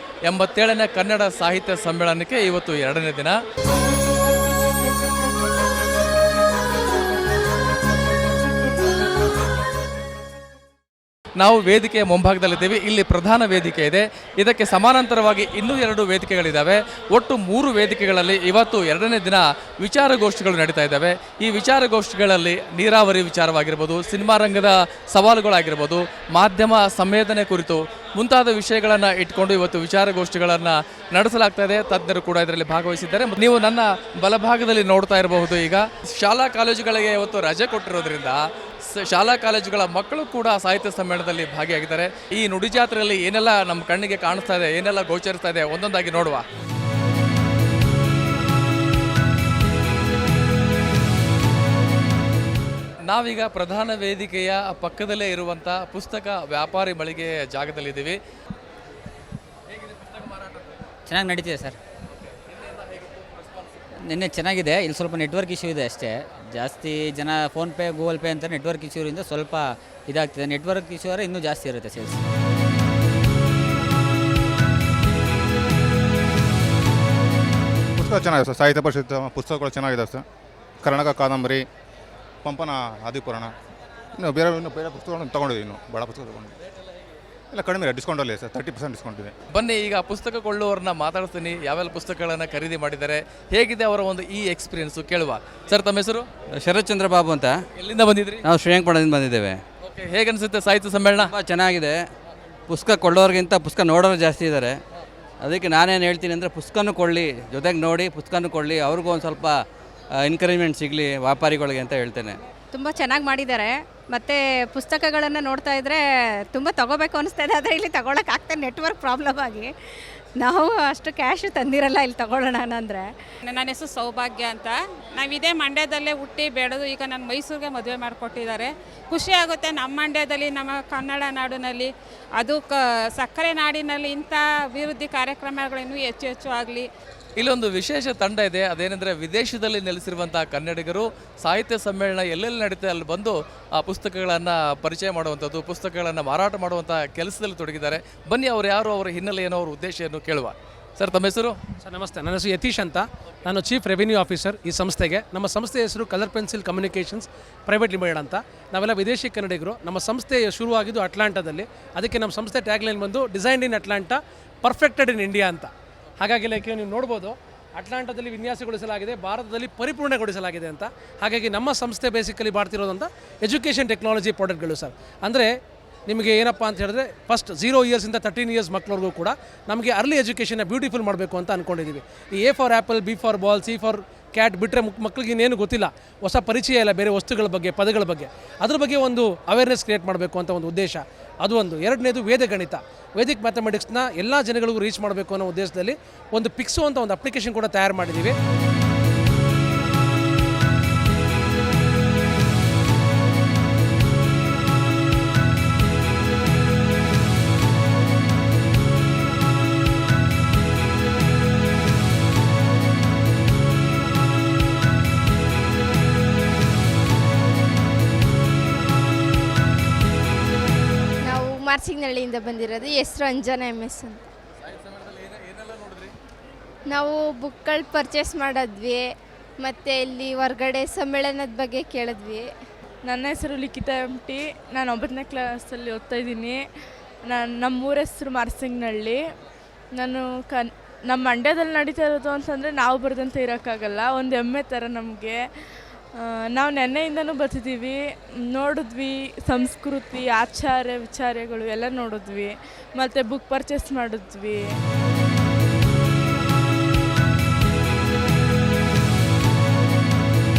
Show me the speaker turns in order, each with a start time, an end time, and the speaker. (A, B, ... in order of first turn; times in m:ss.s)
0:00.3-0:03.3 A
0:11.4-0:38.4 A
0:38.9-0:46.4 A
0:53.1-0:58.2 A
1:01.1-1:01.8 B
1:02.3-1:03.1 A
1:04.0-1:12.2 B
1:18.0-1:20.2 C
1:20.8-1:21.6 C
1:22.4-1:23.5 C
1:24.2-1:26.5 C
1:27.5-1:29.3 C
1:29.5-1:36.3 A
1:36.6-1:37.6 D
1:37.8-1:38.4 A
1:38.4-1:39.6 D
1:39.8-1:41.3 A
1:41.2-1:42.0 D
1:42.7-1:44.8 D
1:45.4-1:49.6 D
1:50.2-1:52.4 D
1:52.7-1:59.7 E
2:00.4-2:03.1 E
2:03.4-2:16.9 F
2:17.4-2:31.6 A
2:31.8-2:55.5 G
2:56.1-3:18.3 G
3:41.2-3:44.2 H
3:44.7-3:46.1 A
3:46.9-3:52.5 H
3:53.1-3:56.6 I
3:57.3-3:59.2 I
4:00.0-4:05.4 I
4:06.2-4:08.0 I
4:08.5-4:14.6 I